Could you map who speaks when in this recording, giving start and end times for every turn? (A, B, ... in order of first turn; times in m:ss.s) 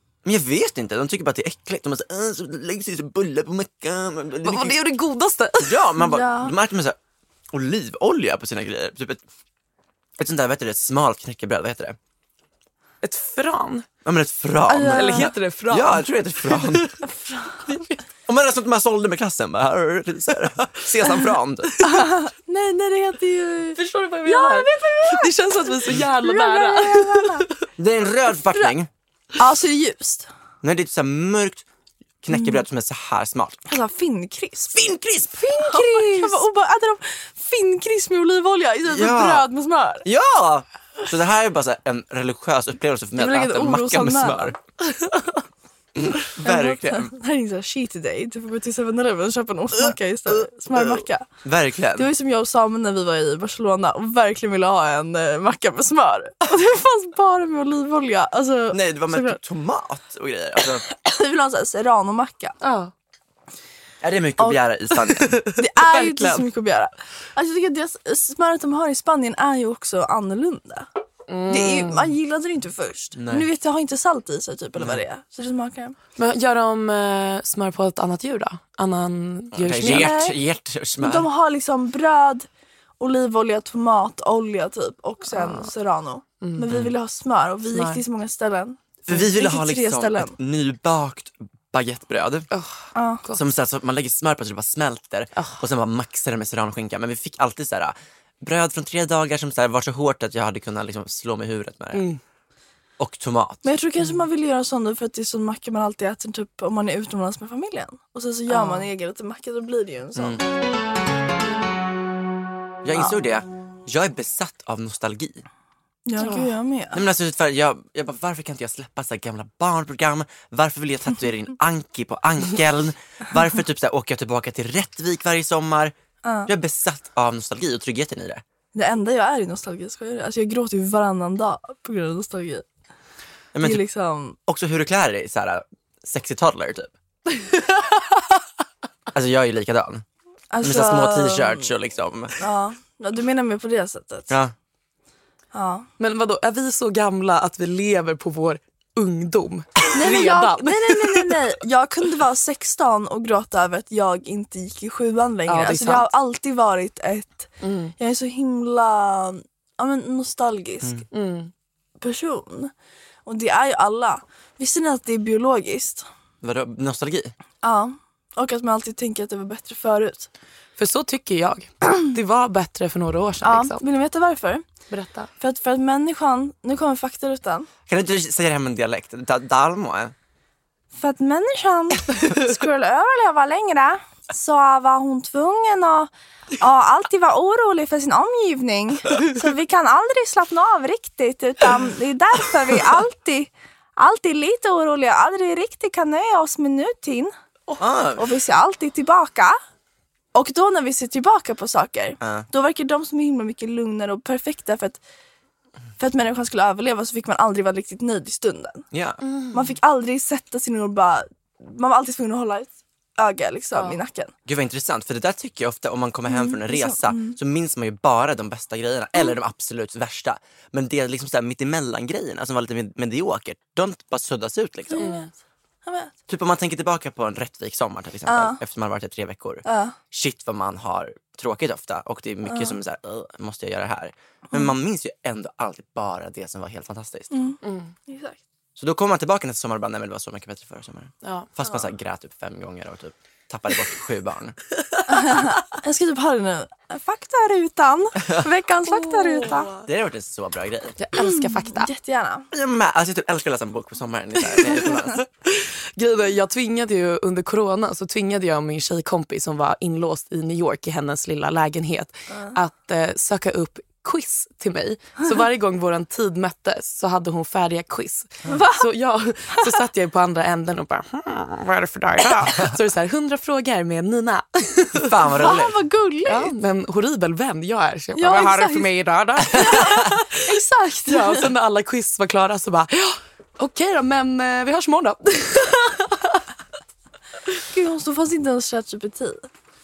0:00.2-0:04.8 A
0:04.4-0:05.8 B
0:05.6-0:07.0 A
0:06.0-0:06.5 C
0:07.5-0:09.2 A
0:10.2-0:12.0 A
0:13.0-0:13.9 B
0:14.0-0:17.0 A
0:14.7-0:15.3 C
0:14.8-0:16.9 B
0:17.0-0:17.6 C
0:17.7-0:18.0 B
0:18.3-0:21.9 A
0:21.9-0:27.5 C
0:23.8-0:27.5 B
0:27.8-0:28.9 A
0:29.4-0:30.3 C
0:30.6-0:31.6 A
0:32.2-0:33.6 A
0:33.7-0:34.7 C
0:34.6-0:35.5 A
0:35.4-0:36.4 B
0:35.5-0:40.0 C
0:38.9-0:39.5 A
0:40.0-0:44.6 A
0:43.2-0:44.6 C
0:46.0-0:47.1 A
0:46.4-0:51.3 C
0:49.8-0:52.1 A
0:51.9-0:59.4 C
0:58.7-1:00.8 A
1:00.8-1:02.6 C
1:02.6-1:02.9 B
1:04.0-1:05.4 A
1:05.2-1:06.4 B
1:05.5-1:10.9 C
1:11.3-1:12.1 B
1:11.5-1:16.0 C
1:13.2-1:13.5 A
1:14.8-1:15.0 A
1:16.2-1:20.1 B
1:19.5-1:21.3 A
1:19.8-1:20.4 C
1:21.0-1:22.5 C
1:23.0-1:30.4 C
1:25.3-1:25.7 B
1:26.4-1:26.7 B
1:27.7-1:28.0 B
1:29.1-1:32.5 A
1:32.5-1:33.4 B
1:32.9-1:33.2 C
1:33.3-1:42.1 A
1:35.4-1:35.6 B
1:41.9-1:42.2 B
1:43.0-1:43.6 A
1:43.6-1:50.4 C
1:48.5-1:48.9 B
1:50.2-1:50.4 A
1:52.8-1:55.4 A
1:56.0-1:57.0 C
1:56.2-1:56.5 B
1:56.9-2:05.9 A
2:06.2-2:06.5 C
2:06.4-2:08.4 A
2:08.7-2:12.6 C
2:13.5-2:13.8 A
2:13.6-2:14.4 C
2:14.4-2:16.9 A
2:19.1-2:20.0 A
2:20.5-2:21.7 C
2:20.6-2:22.3 A
2:22.4-2:24.3 C
2:25.5-2:25.9 C
2:26.0-2:31.3 B
2:29.9-2:41.0 C
2:35.5-2:36.1 B
2:37.6-2:37.9 B
2:41.1-2:41.5 B
2:42.0-2:42.7 C
2:43.2-2:46.0 C
2:46.4-2:47.3 A
2:47.6-2:50.3 C
2:50.8-2:53.8 B
2:53.4-2:54.6 C
2:54.9-2:55.3 B
2:55.4-2:57.7 C
2:57.9-3:00.1 A
3:01.0-3:17.3 C
3:17.8-3:18.3 A
3:18.2-3:19.6 C
3:20.3-3:25.0 C
3:22.2-3:22.5 A
3:26.0-3:28.8 C
3:28.9-3:29.2 A
3:29.2-3:29.7 B
3:29.5-3:34.3 C
3:34.4-3:45.1 A
3:36.3-3:37.4 C
3:44.9-3:45.3 C
3:45.0-3:45.3 B
3:45.8-3:46.1 C
3:46.3-3:57.3 A
3:48.3-3:48.6 C
3:49.6-3:50.0 C
3:52.5-3:52.8 C
3:57.3-3:58.4 C
3:57.6-3:57.9 B
3:58.8-4:04.6 A
4:01.2-4:01.5 B
4:04.9-4:05.4 B
4:05.1-4:09.7 C
4:08.8-4:09.8 B
4:09.8-4:11.0 A
4:11.0-4:11.9 B
4:11.2-4:12.5 C
4:12.5-4:15.2 A
4:15.2-4:35.3 B
4:28.5-4:28.9 C
4:35.0-4:35.8 A
4:35.3-4:36.5 C
4:36.3-4:40.2 B
4:38.1-4:38.9 C
4:39.5-4:41.5 C
4:41.1-4:46.4 B
4:47.7-4:49.5 C